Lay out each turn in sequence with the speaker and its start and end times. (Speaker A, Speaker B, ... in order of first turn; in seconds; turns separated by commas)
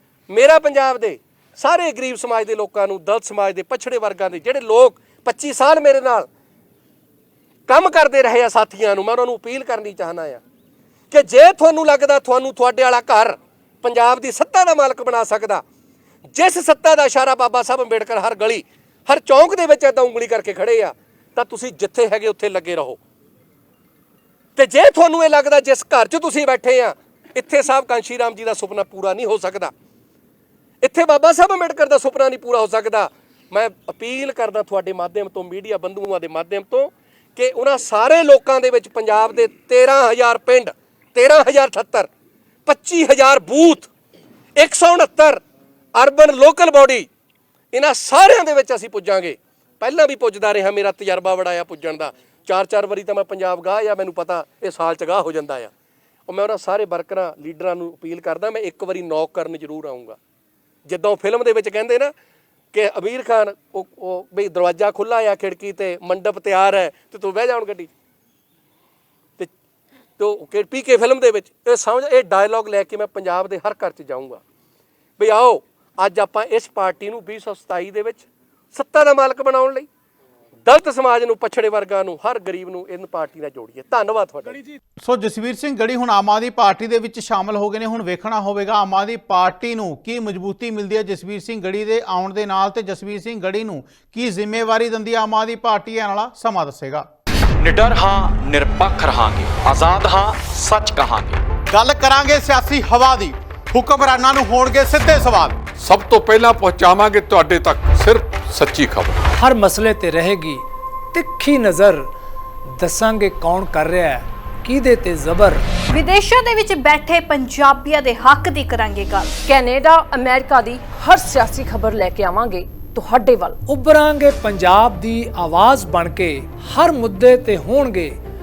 Speaker A: 0.3-6.3, Speaker A: 7.7-10.4, Speaker A: 11.1-15.6, Speaker A: 16.3-23.0, Speaker A: 24.6-29.7, Speaker A: 30.8-42.1, Speaker A: 42.7-43.9, Speaker A: 44.6-45.4, Speaker A: 46.0-47.1, Speaker A: 47.7-55.7, Speaker A: 56.3-60.2, Speaker A: 60.9-62.1, Speaker A: 62.7-67.9, Speaker A: 70.2-74.4, Speaker A: 75.2-79.9, Speaker A: 80.7-84.6, Speaker B: 85.0-97.1, Speaker C: 97.6-101.4, Speaker B: 101.7-105.6, Speaker D: 105.8-109.2, Speaker E: 109.4-112.1, Speaker E: 112.7-115.7, Speaker F: 115.9-119.4, Speaker G: 119.5-123.6, Speaker E: 123.7-128.2